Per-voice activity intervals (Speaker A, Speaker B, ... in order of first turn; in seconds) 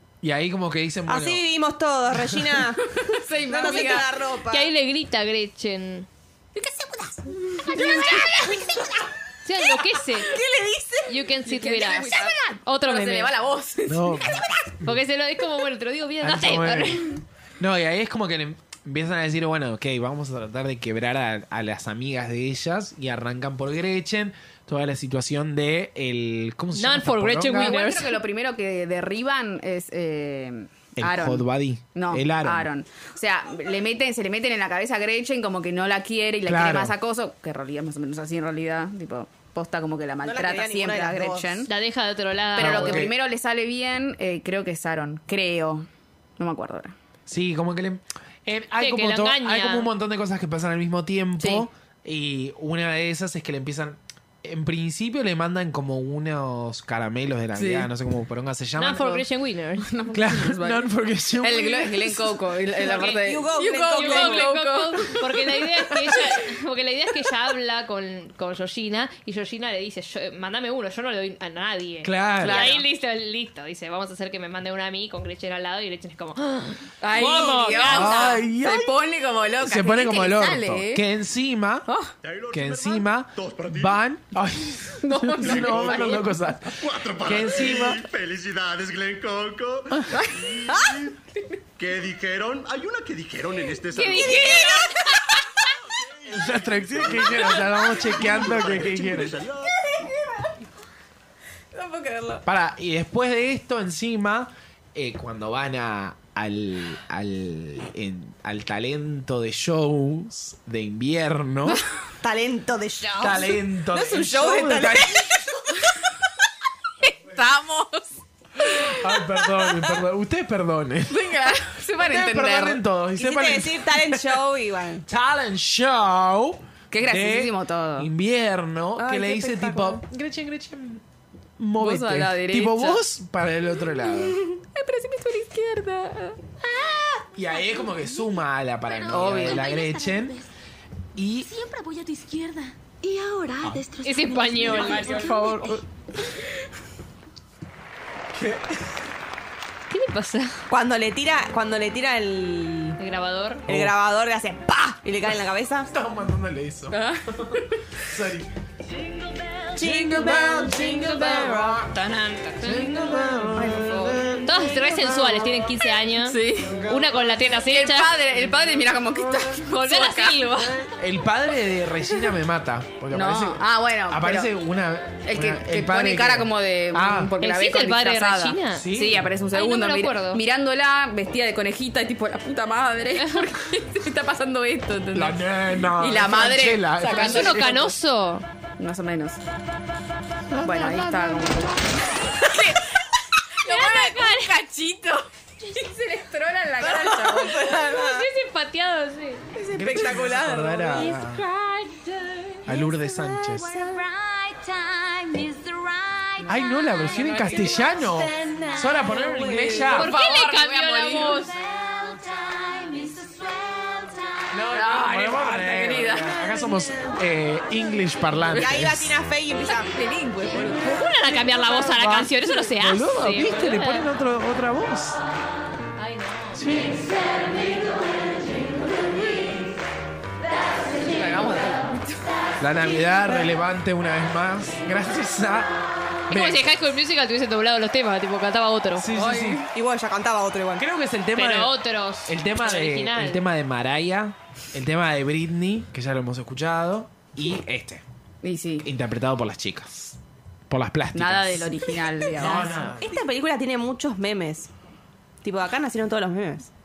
Speaker A: 0.2-1.4, 2.1-2.6, 13.9-15.0, 16.2-27.7, 31.0-32.7, 36.5-36.9, 42.6-43.1, 47.3-59.2, 60.1-62.4, 72.0-72.8, 77.7-78.9, 79.6-81.9, 82.5-88.0, 96.2-99.4, 102.4-111.8, 113.2-115.5, 118.6-124.5, 125.0-131.0, 131.6-134.4, 137.3-140.4, 141.2-141.5, 144.8-145.7, 148.3-149.0, 153.7-154.0, 155.9-158.5, 159.7-161.9, 162.6-165.4, 166.6-167.1, 170.8-177.3, 178.7-179.3, 185.1-187.9, 199.7-201.4, 202.7-203.8, 206.4-210.1, 214.5-219.2, 220.5-221.1, 221.6-225.2, 226.5-227.1, 232.6-236.7, 238.9-239.7, 240.8-241.7, 242.2-248.0, 248.8-250.2, 250.7-253.1
Speaker B: 1.1-4.7, 7.8-8.8, 10.2-11.1, 40.2-41.6, 62.9-64.5, 112.2-115.7, 123.2-125.0, 129.0-130.0, 144.6-145.8, 150.7-153.0, 153.7-155.9, 159.7-161.8, 163.6-163.9, 196.8-198.3, 199.5-202.0, 203.6-204.0, 207.2-209.9, 218.5-220.0, 239.7-240.8, 252.4-254.7, 255.4-256.7
Speaker C: 2.9-4.2, 6.5-8.7, 11.4-14.5, 27.5-41.7, 42.5-45.9, 46.4-46.9, 51.4-51.6, 57.5-57.9, 59.8-66.5, 72.4-72.8, 77.0-81.0, 81.9-82.1, 85.0-86.3, 90.0-90.8, 101.7-102.4, 117.0-120.0, 121.1-122.8, 126.9-128.1, 131.8-133.0, 134.7-136.4, 139.1-139.7, 156.9-157.8, 166.2-166.8, 167.7-170.7, 173.1-174.5, 175.2-187.9, 188.8-189.4, 190.6-197.8, 206.4-207.8, 209.8-211.5, 214.7-216.4, 219.7-221.0, 231.0-232.2, 239.1-239.7, 248.4-248.9, 251.1-252.9
Speaker D: 4.5-6.1, 7.7-8.6, 9.4-10.4, 11.1-13.3, 14.8-17.1, 26.7-28.2, 41.7-43.1, 48.8-49.9, 58.8-59.9, 62.8-78.4, 93.9-95.4, 144.0-145.7, 149.9-150.6, 153.0-153.6, 161.8-168.2, 169.7-170.8, 177.4-178.9, 179.5-180.4, 187.1-188.4, 193.6-194.6, 197.7-199.4, 209.8-211.5, 220.8-224.1, 226.0-226.6, 236.3-239.1, 241.3-243.4
Speaker E: 82.2-84.0, 85.4-91.2, 91.8-99.7
Speaker F: 139.6-140.3, 141.6-145.5, 203.8-206.3, 211.7-214.3